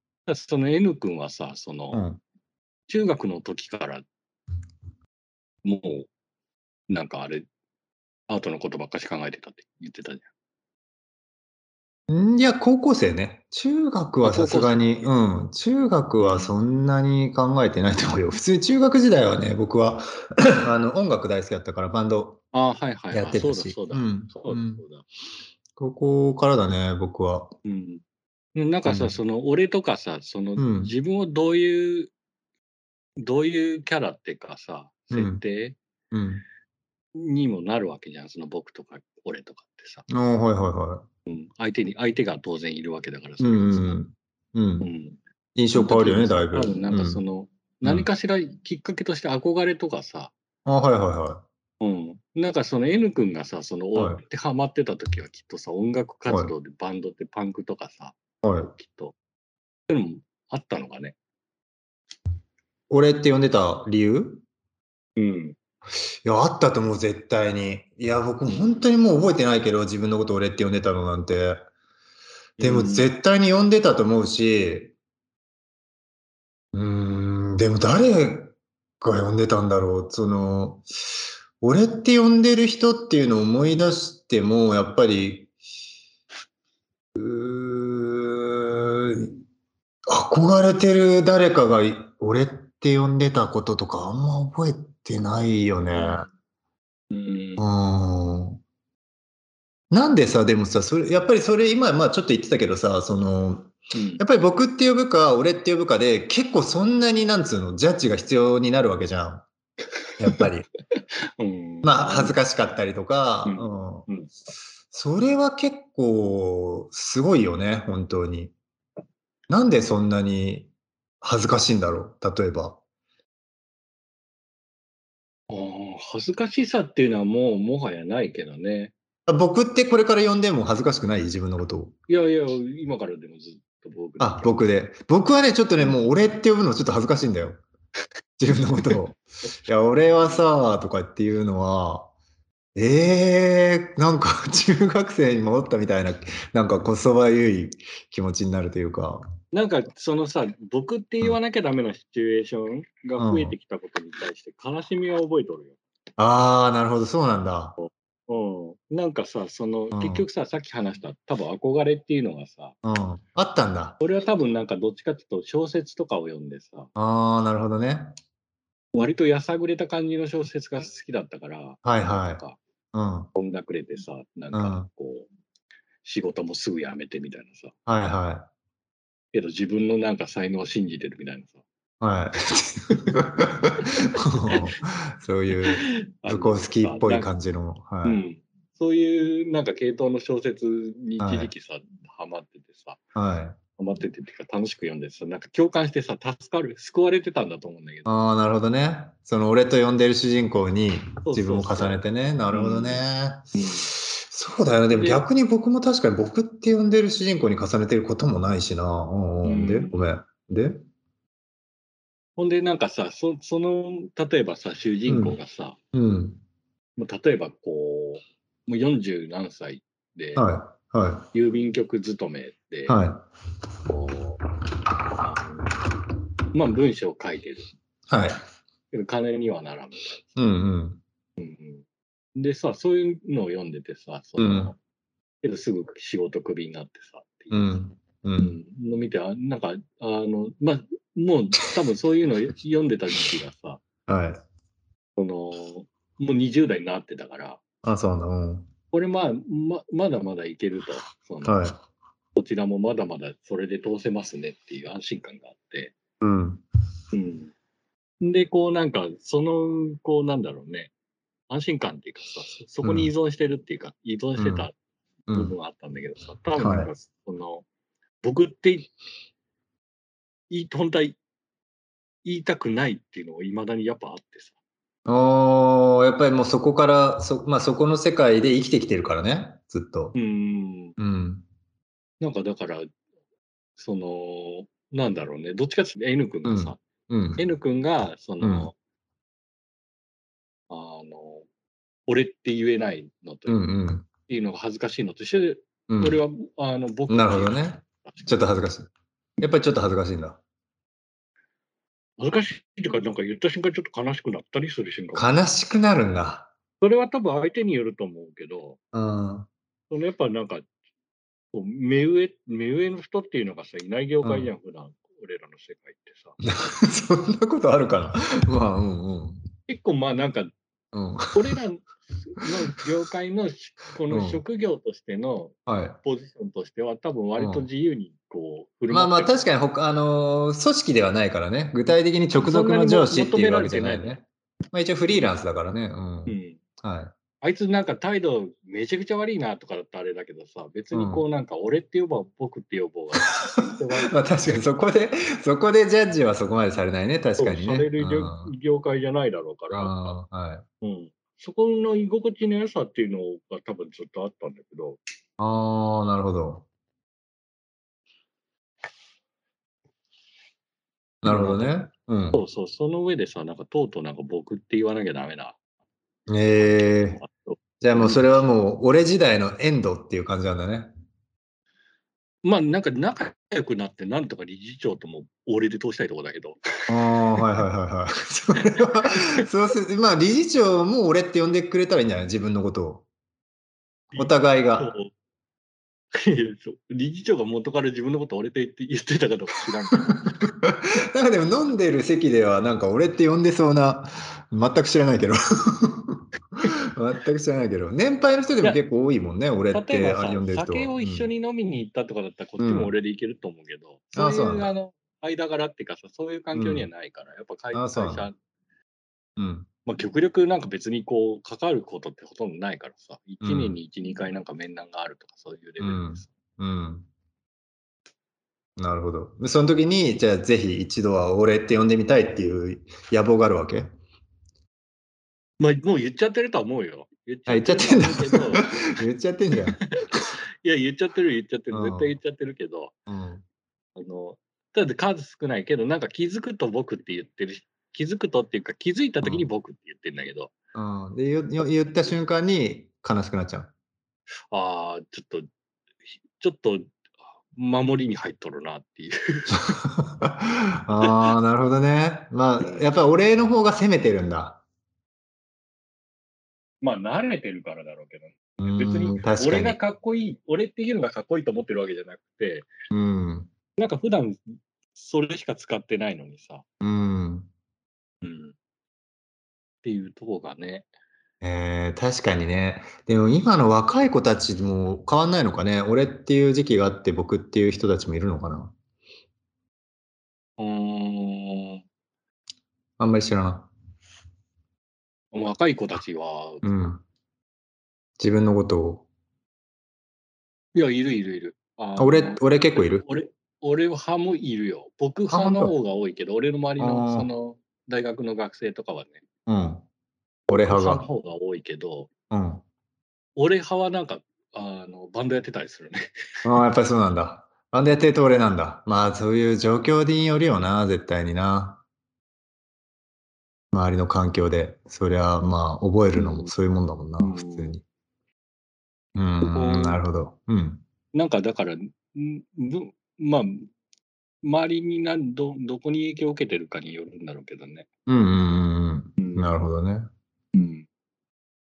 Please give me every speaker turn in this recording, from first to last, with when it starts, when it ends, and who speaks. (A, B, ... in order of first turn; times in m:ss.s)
0:00.3-0:02.0 A
0:01.9-0:02.2 B
0:02.9-0:04.0 A
0:05.6-0:06.1 A
0:06.9-0:07.5 A
0:08.3-0:10.3 A
0:12.1-0:22.4 B
0:14.2-0:14.8 A
0:16.2-0:16.5 A
0:22.5-0:25.0 A
0:23.1-0:24.8 B
0:25.8-0:27.5 B
0:27.6-0:28.0 A
0:28.5-0:32.1 A
0:28.8-0:29.2 B
0:30.6-0:30.9 B
0:33.2-0:35.8 A
0:35.1-0:35.4 B
0:36.1-0:36.4 B
0:37.1-0:40.0 A
0:40.1-0:41.0 B
0:41.3-0:44.0 A
0:43.4-0:44.9 B
0:44.8-0:45.2 A
0:45.5-0:47.2 B
0:45.7-0:50.3 A
0:50.6-0:51.4 B
0:51.8-0:59.1 A
0:54.0-0:54.2 B
0:56.3-0:56.5 B
0:58.4-0:58.7 B
0:59.9-1:01.2 A
1:02.9-1:04.4 B
1:05.2-1:05.6 A
1:06.2-1:11.6 B
1:08.5-1:08.8 A
1:12.6-1:13.1 A
1:12.6-1:14.9 B
1:16.7-1:20.8 B
1:21.6-1:25.5 B
1:27.2-1:29.3 B
1:30.1-1:36.2 B
1:35.9-1:36.3 A
1:37.1-1:37.6 A
1:37.6-1:38.6 B
1:39.9-1:49.4 B
1:43.9-1:44.2 A
1:50.2-1:50.7 B
1:51.4-1:52.4 A
1:51.8-1:54.1 B
1:53.4-1:54.3 A
1:54.9-1:58.5 B
1:59.5-2:00.7 B
2:01.2-2:02.8 B
2:05.5-2:08.9 A
2:09.3-2:11.9 B
2:12.1-2:14.6 A
2:14.2-2:17.6 B
2:18.4-2:22.1 B
2:22.7-2:29.2 B
2:29.5-2:35.7 A
2:33.2-2:33.5 B
2:36.2-2:37.8 B
2:37.8-2:42.7 A
2:39.9-2:40.3 B
2:42.8-2:44.0 B
2:44.0-2:46.9 A
2:47.0-2:48.1 B
2:48.9-2:52.6 A
2:51.8-2:52.4 B
2:52.9-2:53.3 B
2:53.3-2:55.3 A
2:54.5-2:54.9 B
2:56.0-2:57.7 A
2:57.9-2:58.5 B
2:59.3-3:01.6 A
3:02.0-3:08.2 B
3:05.7-3:07.3 A
3:08.0-3:13.0 A
3:11.2-3:11.5 B
3:13.1-3:13.6 B
3:13.8-3:18.1 A
3:18.0-3:30.8 B
3:21.2-3:23.9 A
3:24.9-3:25.2 A
3:29.4-3:30.0 A
3:32.4-3:35.8 A
3:35.1-3:35.4 B
3:35.9-3:36.4 B
3:37.0-3:40.4 A
3:40.4-3:41.3 B
3:41.3-3:43.0 A
3:42.9-3:43.2 B
3:43.9-3:44.4 A
3:45.2-3:45.6 A
3:46.5-3:47.7 A
3:48.1-3:48.4 B
3:48.9-3:50.4 A
3:50.4-3:51.0 B
3:51.4-3:51.8 A
3:52.4-3:54.8 A
3:54.4-3:54.7 B
3:55.4-3:57.7 A
3:57.5-3:58.6 B
3:58.4-4:03.8 A
4:04.1-4:04.4 B
4:05.2-4:07.6 A
4:07.8-4:08.7 B
4:08.9-4:11.6 A
4:11.4-4:11.8 B
4:12.4-4:15.9 A
4:16.2-4:16.6 B
4:17.1-4:17.5 A
4:18.2-4:20.9 A
4:21.5-4:24.7 A
4:22.8-4:23.1 B
4:24.4-4:24.7 B
4:25.3-4:27.6 A
4:26.6-4:26.9 B
4:28.2-4:28.9 A
4:30.5-4:31.2 A
4:32.2-4:34.5 A
4:35.0-4:40.2 B
4:40.1-4:41.0 A
4:41.0-4:41.4 B
4:42.2-4:42.9 A
4:43.8-4:46.8 A
4:46.4-4:47.4 B
4:47.4-4:48.7 A
4:48.4-4:48.7 B
4:50.7-4:51.4 A
4:52.1-4:53.6 A
4:53.5-4:54.1 B
4:54.3-4:58.4 A
4:55.9-4:56.2 B
4:57.1-5:00.4 B
5:02.2-5:05.3 A
5:05.1-5:06.5 B
5:06.8-5:08.8 A
5:08.9-5:09.5 B
5:09.9-5:10.6 A
5:11.5-5:16.4 A
5:14.2-5:14.5 B
5:16.4-5:19.4 B
5:19.7-5:20.5 A
5:20.9-5:21.6 B
5:21.3-5:29.3 A
5:24.1-5:24.4 B
5:25.7-5:26.0 B
5:27.4-5:27.7 B
5:28.9-5:37.1 B
5:32.4-5:34.1 A
5:36.2-5:36.6 A
5:37.4-5:44.1 A
5:40.9-5:41.2 B
5:44.0-5:48.5 B
5:47.4-5:50.2 A
5:49.7-5:50.6 B
5:50.8-5:55.0 A
5:55.4-5:56.6 B
6:01.2-6:02.4 B
6:01.2-6:01.7 A
6:02.3-6:05.6 A
6:06.3-6:07.2 B
6:06.6-6:08.3 A
6:07.8-6:10.9 B
6:12.4-6:16.6 A
6:16.9-6:23.0 B
6:18.8-6:19.3 A
6:24.1-6:25.1 A
6:24.2-6:24.9 B
6:26.1-6:30.1 A
6:30.1-6:41.3 B
6:39.7-6:48.4 A
6:42.6-6:42.9 B
6:44.1-6:44.7 B
6:46.5-6:46.9 B
6:47.7-6:48.3 B
6:49.4-6:49.7 B
6:49.8-6:56.3 A
6:53.4-6:53.8 B
6:55.8-6:57.1 B
6:58.8-7:03.9 B
7:05.6-7:08.9 A
7:07.5-7:10.3 B
7:09.8-7:12.9 A
7:11.7-7:12.1 B
7:13.1-7:13.4 B
7:14.0-7:20.5 A
7:19.2-7:19.5 B
7:20.7-7:23.7 B
7:24.5-7:25.5 A
7:26.2-7:26.9 A
7:27.5-7:29.8 A
7:29.8-7:34.6 B
7:32.6-7:32.8 A
7:36.8-7:42.7 A
7:38.6-7:39.8 B
7:42.9-7:43.5 B
7:43.8-7:46.6 A
7:46.8-7:47.5 B
7:48.2-7:48.5 A
7:49.8-7:50.9 A
7:51.4-7:58.7 B
8:00.6-8:01.8 A
8:03.0-8:03.7 B
8:05.3-8:06.6 A
8:06.6-8:07.0 B
8:08.2-8:09.0 B
8:10.7-8:19.2 A
8:12.0-8:13.0 B
8:15.3-8:15.7 B
8:16.8-8:17.3 B
8:19.5-8:19.8 B
8:20.5-8:21.1 B
8:20.5-8:22.1 A
8:22.3-8:22.6 B
8:23.4-8:26.1 A
8:26.4-8:31.8 B
8:33.7-8:37.8 B
8:36.2-8:36.5 A
8:37.2-8:37.8 A
8:39.2-8:40.8 B
8:39.4-8:40.0 A
8:41.1-8:43.7 A
8:44.4-8:47.9 A
8:48.1-8:50.1 B
8:49.2-8:49.5 A
8:50.5-8:50.8 A